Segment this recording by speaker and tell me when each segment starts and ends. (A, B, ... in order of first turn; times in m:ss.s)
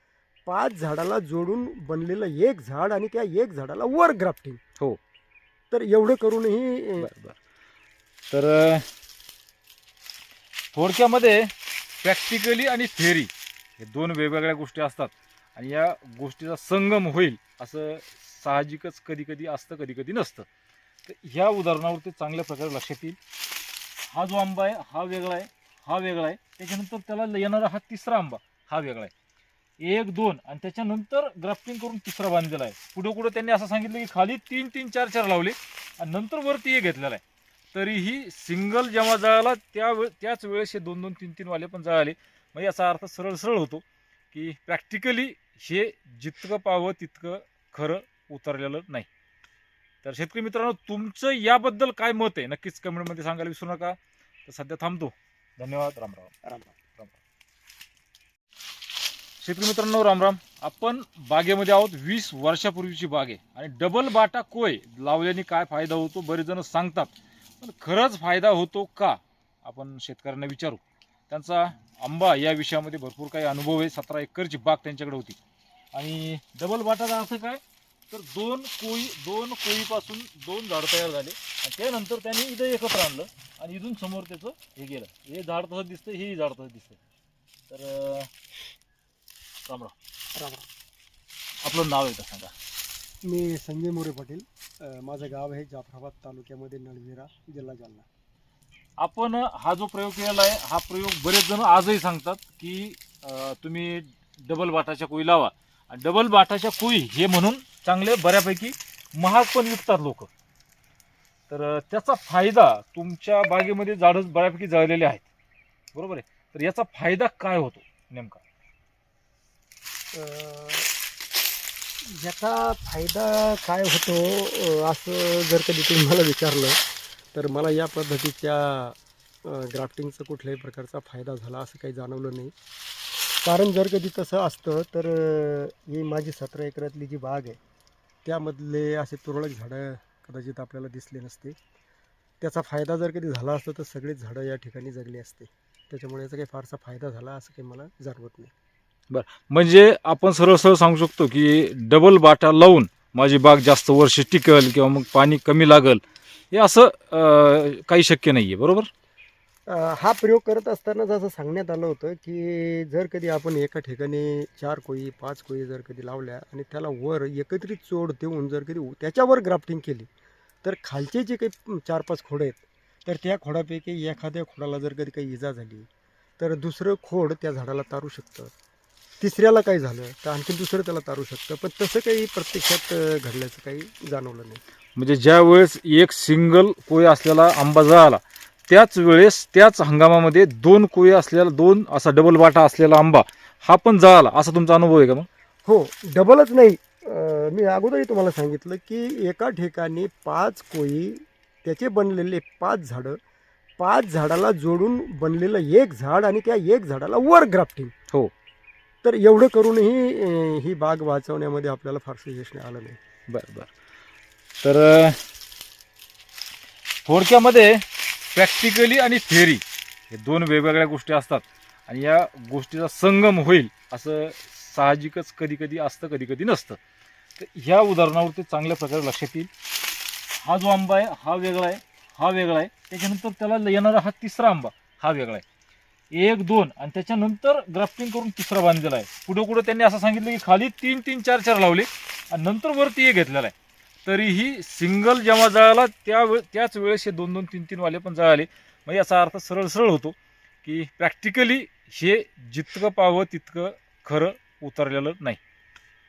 0:00.4-0:04.6 A
0:05.7-0:07.1 A
0:07.0-0:07.4 B
0:08.3-0:08.9 B
0:10.7-0:20.5 B
0:21.0-0:23.2 B
0:24.1-0:29.1 B
0:29.8-0:37.2 B
0:37.7-0:49.1 B
0:50.0-0:56.3 B
0:56.4-0:56.7 A
0:59.4-1:15.4 B
1:15.9-1:27.0 B
1:27.7-1:28.3 B
1:29.6-1:29.9 B
1:30.3-1:30.7 A
1:31.6-1:32.5 B
1:33.2-1:38.1 A
1:39.0-1:50.3 B
1:51.5-1:55.3 B
1:55.9-1:58.4 B
2:00.1-2:00.9 A
2:02.0-2:06.8 A
2:07.3-2:12.5 A
2:13.4-2:17.6 A
2:18.2-2:21.6 A
2:22.4-2:28.5 A
2:29.1-2:38.9 B
2:39.7-2:50.1 A
2:50.6-2:58.5 A
2:59.2-3:04.6 A
3:05.0-3:15.3 B
3:15.6-3:23.2 A
3:23.8-3:27.9 A
3:29.0-3:33.0 A
3:33.3-3:33.7 B
3:34.6-3:35.2 B
3:37.0-3:46.8 B
3:47.4-3:49.5 B
3:50.4-3:55.4 B
3:56.1-4:03.5 B
4:04.0-4:15.4 B